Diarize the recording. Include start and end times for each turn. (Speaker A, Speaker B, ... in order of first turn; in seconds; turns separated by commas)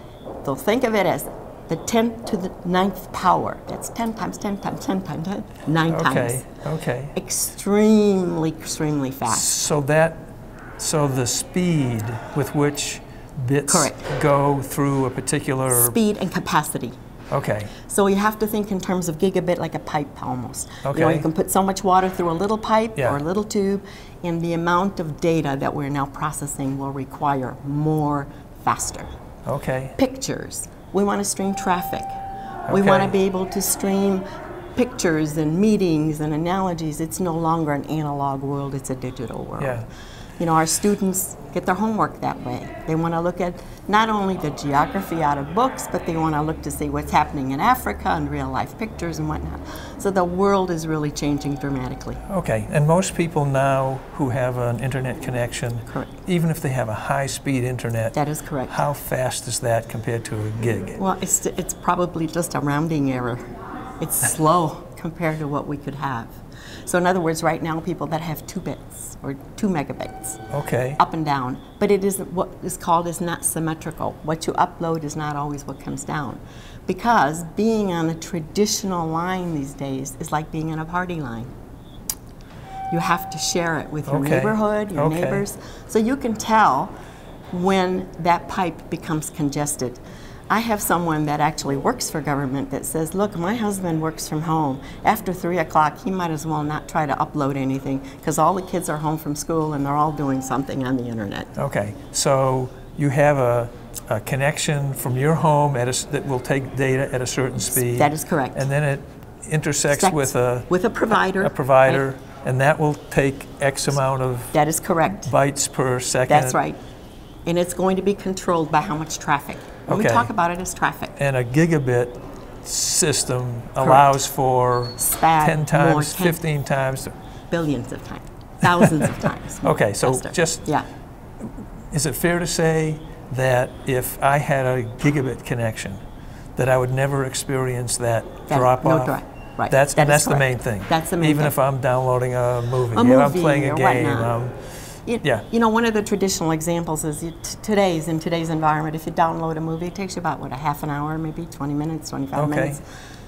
Speaker A: 0.4-6.4, Speaker B: 5.9-7.1, Speaker A: 7.2-9.5, Speaker B: 9.3-10.3, Speaker B: 10.8-15.9, Speaker A: 13.7-14.1, Speaker A: 15.7-16.9, Speaker B: 17.3-17.7, Speaker A: 17.8-29.1, Speaker B: 20.9-21.3, Speaker B: 23.0-23.2, Speaker B: 29.5-29.9, Speaker A: 30.0-32.1, Speaker B: 32.7-33.1, Speaker A: 32.7-34.2, Speaker A: 34.8-39.8, Speaker B: 39.6-39.9, Speaker A: 40.4-52.2, Speaker B: 52.3-58.2, Speaker A: 55.9-56.2, Speaker A: 58.1-58.8, Speaker B: 58.7-61.0, Speaker A: 61.0-63.5, Speaker A: 64.0-70.4, Speaker B: 70.5-71.0, Speaker A: 71.0-81.5, Speaker A: 82.9-86.9, Speaker B: 84.1-85.4, Speaker A: 87.5-101.5, Speaker B: 101.6-110.7, Speaker A: 107.8-108.7, Speaker A: 109.9-112.0, Speaker B: 111.4-114.6, Speaker A: 114.5-115.3, Speaker B: 115.3-116.6, Speaker A: 116.3-116.8, Speaker A: 117.5-121.2, Speaker B: 119.9-120.3, Speaker B: 121.2-127.1, Speaker A: 123.8-124.1, Speaker A: 125.0-126.4, Speaker A: 127.5-130.9, Speaker B: 128.8-130.7, Speaker B: 131.4-136.0, Speaker B: 136.6-139.2, Speaker A: 138.5-141.5, Speaker B: 139.7-144.6, Speaker A: 142.9-144.3, Speaker A: 145.1-152.8, Speaker B: 152.3-152.8